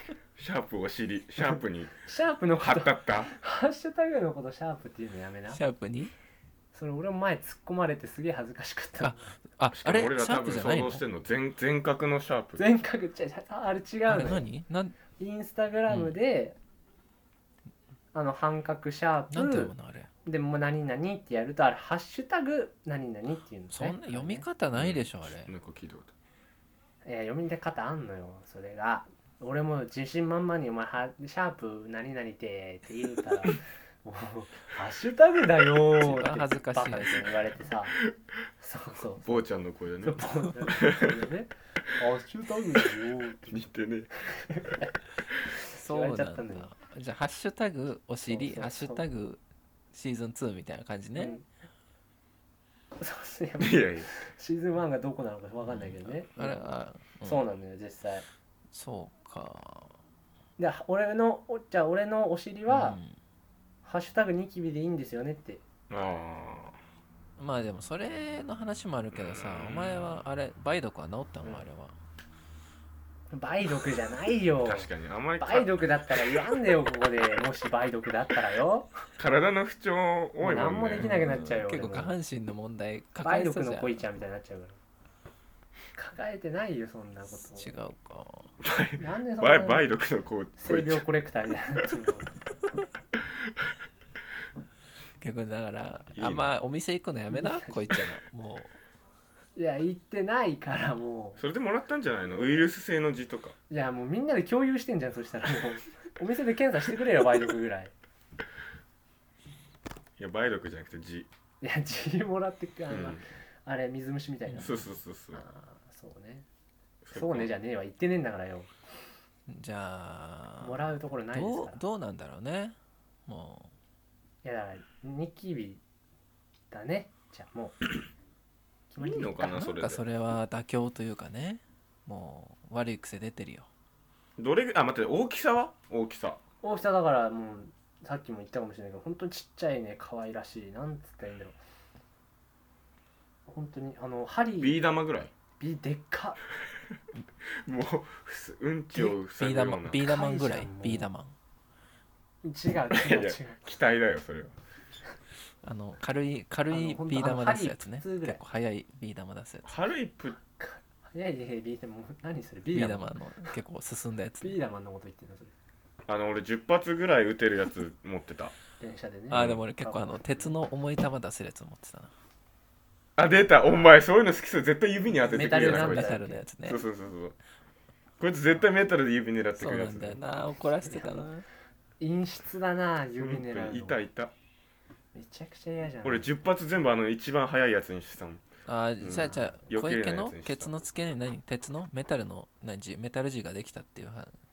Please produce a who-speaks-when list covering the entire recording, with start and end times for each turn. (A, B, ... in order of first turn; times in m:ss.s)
0:00.4-0:01.9 A
0:02.0-0:05.6 B
0:02.6-0:03.3 A
0:05.5-0:06.1 C
0:06.7-0:09.3 B
0:09.0-0:11.0 C
0:09.7-0:12.6 A
0:12.6-0:14.4 B
0:14.1-0:15.0 C
0:15.2-0:16.6 B
0:15.9-0:16.1 C
0:18.1-0:19.7 B
0:19.3-0:20.1 C
0:20.2-0:24.4 B
0:23.7-0:25.5 C
0:24.7-0:26.1 A
0:27.0-0:38.0 B
0:36.0-0:37.3 C
0:38.6-0:39.4 B
0:39.2-0:41.2 A
0:40.0-0:43.7 B
0:43.5-0:44.1 A
0:44.2-0:44.9 B
0:45.7-0:46.7 B
0:45.7-0:49.4 C
0:48.2-0:49.0 B
0:49.9-0:51.4 C
0:51.2-0:51.4 B
0:53.0-0:56.6 B
0:53.6-0:54.1 A
0:55.6-0:57.4 C
0:57.2-0:58.2 B
0:58.7-0:59.9 C
1:00.6-1:03.0 B
1:02.7-1:03.1 C
1:03.8-1:05.6 B
1:05.9-1:06.8 A
1:07.4-1:11.9 C
1:09.1-1:10.2 A
1:13.3-1:19.0 B
1:14.6-1:16.4 A
1:19.2-1:21.2 A
1:20.4-1:22.1 B
1:21.0-1:24.0 C
1:23.2-1:24.8 B
1:26.0-1:27.7 B
1:27.6-1:28.5 C
1:28.6-1:31.0 A
1:29.0-1:29.9 B
1:30.6-1:32.4 B
1:35.2-1:38.7 C
1:36.2-1:36.5 A
1:37.3-1:37.9 B
1:39.6-1:41.4 B
1:41.4-1:43.6 A
1:43.7-1:47.9 B
1:50.2-1:51.3 A
1:51.6-1:54.8 B
1:52.9-1:53.2 A
1:54.5-1:54.7 C
1:54.6-1:55.4 A
1:55.3-1:56.4 B
1:57.0-1:57.5 A
1:57.1-1:58.7 B
1:59.5-2:02.8 C
2:00.6-2:01.8 B
2:03.3-2:03.7 C
2:04.4-2:05.8 B
2:06.7-2:07.8 B
2:08.9-2:09.6 B
2:09.0-2:10.0 A
2:09.4-2:13.7 C
2:14.4-2:16.4 A
2:16.6-2:21.6 B
2:23.5-2:24.8 B
2:24.6-2:25.3 A
2:25.6-2:26.4 B
2:27.6-2:30.0 A
2:28.9-2:31.3 C
2:30.0-2:31.1 B
2:32.4-2:33.6 B
2:32.9-2:34.5 A
2:35.6-2:39.7 C
2:36.7-2:38.4 B
2:39.6-2:40.4 A
2:40.6-2:43.1 B
2:42.7-2:44.6 C
2:44.4-2:45.5 B
2:46.1-2:48.5 A
2:48.8-2:50.5 B
2:49.3-2:52.1 C
2:49.3-2:49.6 A
2:53.2-2:57.3 A
2:55.2-2:56.4 B
2:55.3-2:56.8 C
2:58.2-3:00.2 A
2:59.6-3:01.4 C
3:00.8-3:01.2 B
3:02.0-3:04.0 B
3:03.2-3:04.3 A
3:05.1-3:06.3 B
3:06.0-3:08.4 A
3:08.7-3:14.3 C
3:09.0-3:10.7 A